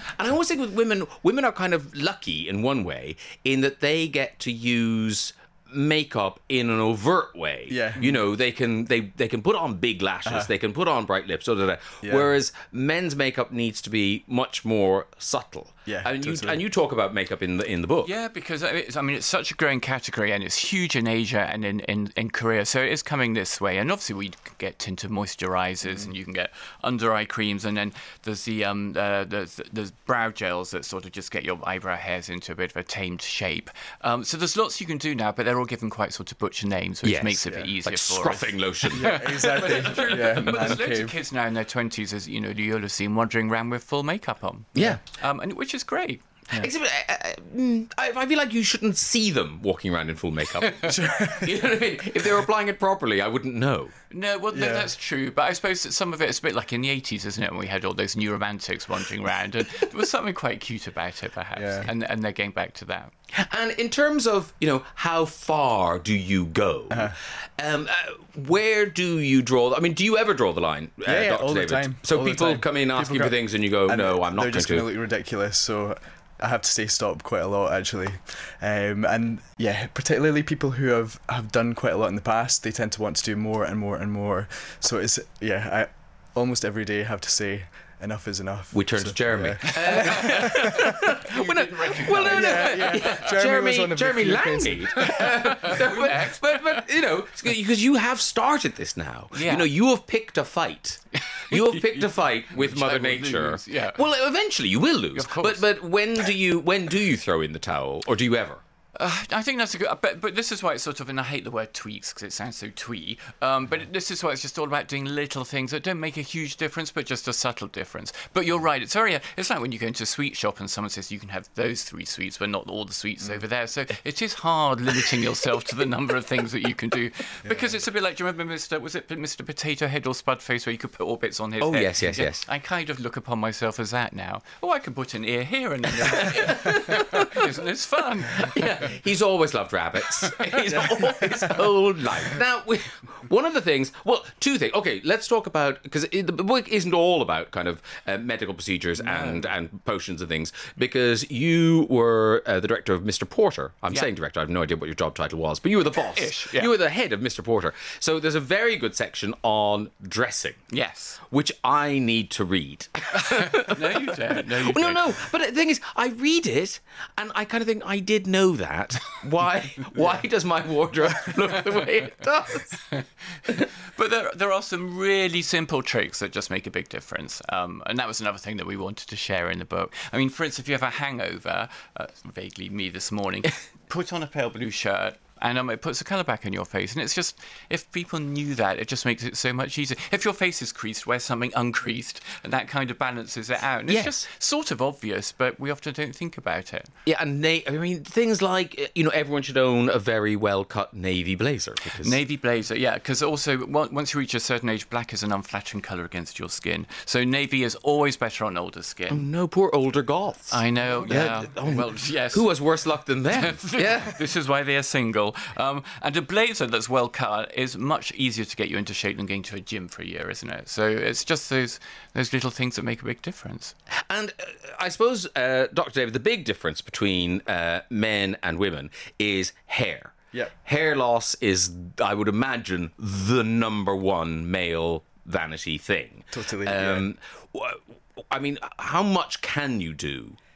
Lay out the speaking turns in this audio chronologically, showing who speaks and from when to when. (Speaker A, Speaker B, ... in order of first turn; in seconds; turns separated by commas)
Speaker A: 0.2-18.1, Speaker B: 7.7-8.2, Speaker B: 10.3-10.5, Speaker B: 12.0-12.4, Speaker B: 15.9-16.6, Speaker C: 18.0-46.2, Speaker B: 25.8-26.1, Speaker A: 37.0-40.7, Speaker B: 37.5-37.7, Speaker B: 38.9-41.1, Speaker A: 44.8-45.0, Speaker A: 46.6-53.9, Speaker B: 50.9-51.6, Speaker C: 54.1-63.1, Speaker B: 54.5-54.9, Speaker B: 61.5-61.9, Speaker A: 63.4-74.9, Speaker B: 66.9-67.2, Speaker B: 71.0-90.4, Speaker A: 88.7-108.6, Speaker C: 89.9-90.8, Speaker C: 91.3-93.2, Speaker B: 92.1-95.8, Speaker C: 95.0-96.8, Speaker C: 99.3-99.7, Speaker C: 101.2-104.0, Speaker C: 105.2-106.3, Speaker C: 109.0-138.7, Speaker B: 127.5-127.8, Speaker A: 131.6-132.5, Speaker B: 136.0-136.8, Speaker A: 136.7-137.2, Speaker A: 138.4-160.6, Speaker B: 149.0-149.5, Speaker C: 156.1-156.7, Speaker C: 160.7-161.2, Speaker A: 161.3-172.8, Speaker C: 163.2-165.3, Speaker C: 173.9-196.9, Speaker A: 193.9-194.2, Speaker A: 197.1-202.2, Speaker C: 202.0-209.2, Speaker A: 209.1-214.2, Speaker C: 210.5-212.7, Speaker B: 210.9-211.4, Speaker C: 213.3-223.8, Speaker A: 224.1-240.4, Speaker B: 236.3-237.1